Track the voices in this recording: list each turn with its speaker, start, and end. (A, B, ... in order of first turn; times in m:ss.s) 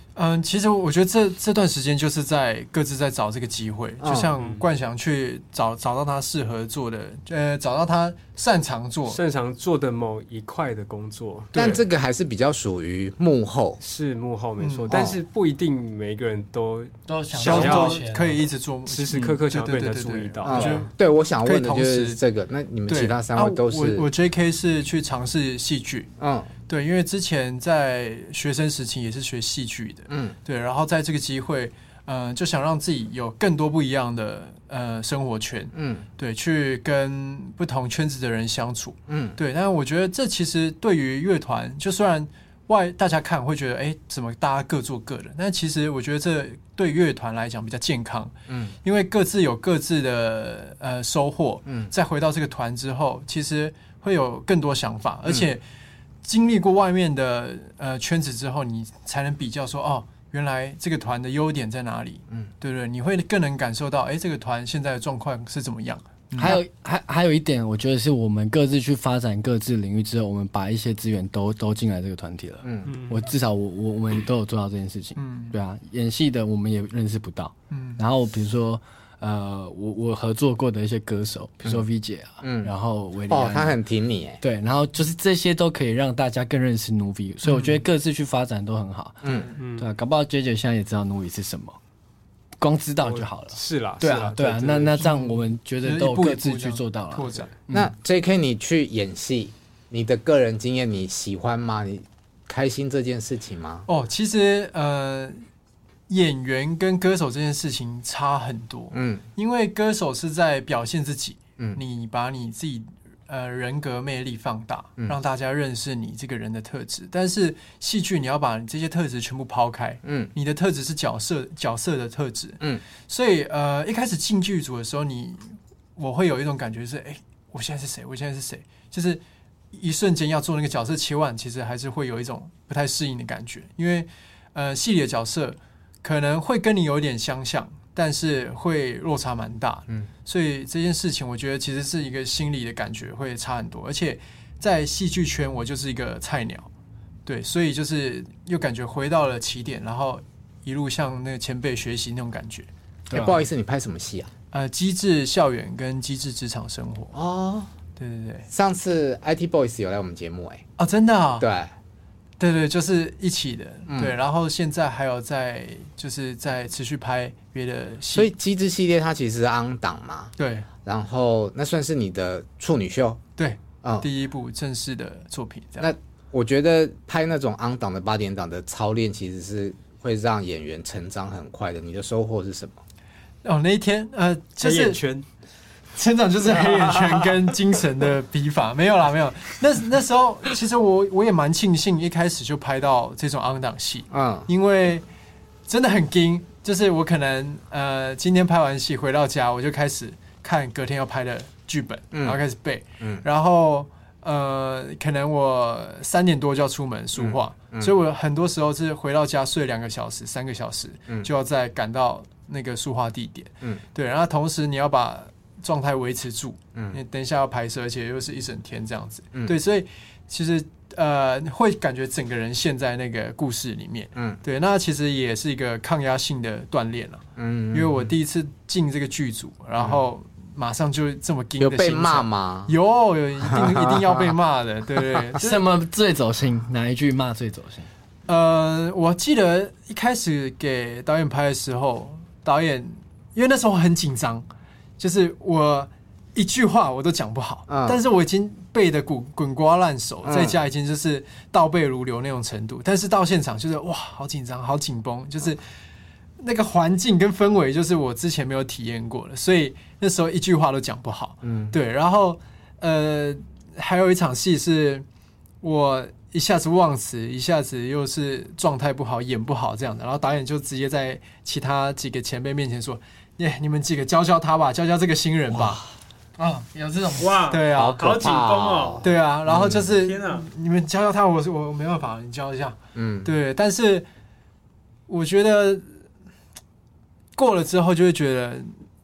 0:00.2-0:09.2 A
0:04.0-0:04.3 B
0:04.4-0:04.6 C
0:09.1-0:11.8 C
0:11.5-0:11.8 A
0:11.5-0:13.8 B
0:13.8-0:18.0 C
0:14.6-0:14.9 A
0:14.9-0:15.2 B
0:17.1-0:18.4 D
0:17.4-0:20.9 A
0:18.8-0:20.8 C
0:20.4-0:24.1 B
0:21.4-0:22.2 A
0:22.9-0:26.1 A
0:26.2-0:26.5 B
0:26.7-0:48.3 A
0:30.1-0:30.3 B
0:35.7-0:36.0 B
0:39.1-0:39.4 B
0:48.5-0:48.7 B
0:48.8-0:55.6 A
0:56.2-1:06.6 A
1:06.4-1:23.8 D
1:12.6-1:12.9 B
1:12.8-1:13.2 C
1:15.2-1:15.6 A
1:17.7-1:18.0 A
1:22.4-1:22.7 B
1:23.3-1:24.4 B
1:24.4-1:29.2 D
1:27.4-1:27.8 A
1:29.2-1:29.5 B
1:29.6-1:29.9 C
1:29.8-1:31.8 D
1:32.6-1:37.9 D
1:33.0-1:35.0 C
1:35.0-1:37.5 A
1:37.7-1:43.9 B
1:43.9-1:45.4 A
1:46.1-2:09.2 A
1:48.9-1:49.2 B
2:00.0-2:00.3 B
2:09.7-2:26.7 A
2:27.2-2:32.7 A
2:33.1-2:33.4 D
2:33.1-2:34.3 B
2:34.5-2:37.1 A
2:37.1-2:37.7 B
2:38.0-2:38.5 A
2:38.5-2:40.6 B
2:40.8-2:41.5 A
2:41.4-2:41.7 B
2:42.4-2:48.3 A
2:43.9-2:44.2 B
2:48.1-2:53.2 B
2:50.4-2:50.7 A
2:53.4-2:55.9 A
2:53.8-2:54.1 B
2:55.8-3:02.8 B
3:03.4-3:05.0 A
3:04.6-3:05.2 C
3:05.9-3:15.0 A
3:14.1-3:14.5 B
3:15.7-3:55.6 A
3:22.1-3:22.4 B
3:27.2-3:27.9 B
3:36.7-3:37.0 B
3:47.4-3:48.1 B
3:49.8-3:50.0 B
3:51.6-3:52.7 B
3:53.4-3:54.4 B
3:55.4-3:57.9 D
3:58.3-4:04.5 A
4:05.0-4:15.6 A
4:07.7-4:08.0 B
4:10.2-4:10.6 B
4:16.4-4:25.0 A
4:21.4-4:21.8 B
4:25.6-4:35.8 A
4:36.4-4:37.3 D
4:37.2-4:39.1 C
4:37.5-4:38.0 A
4:37.7-4:39.9 B
4:39.0-4:44.0 A
4:39.9-4:40.5 C
4:42.9-4:43.3 B
4:45.1-4:45.8 A
4:47.4-4:48.7 A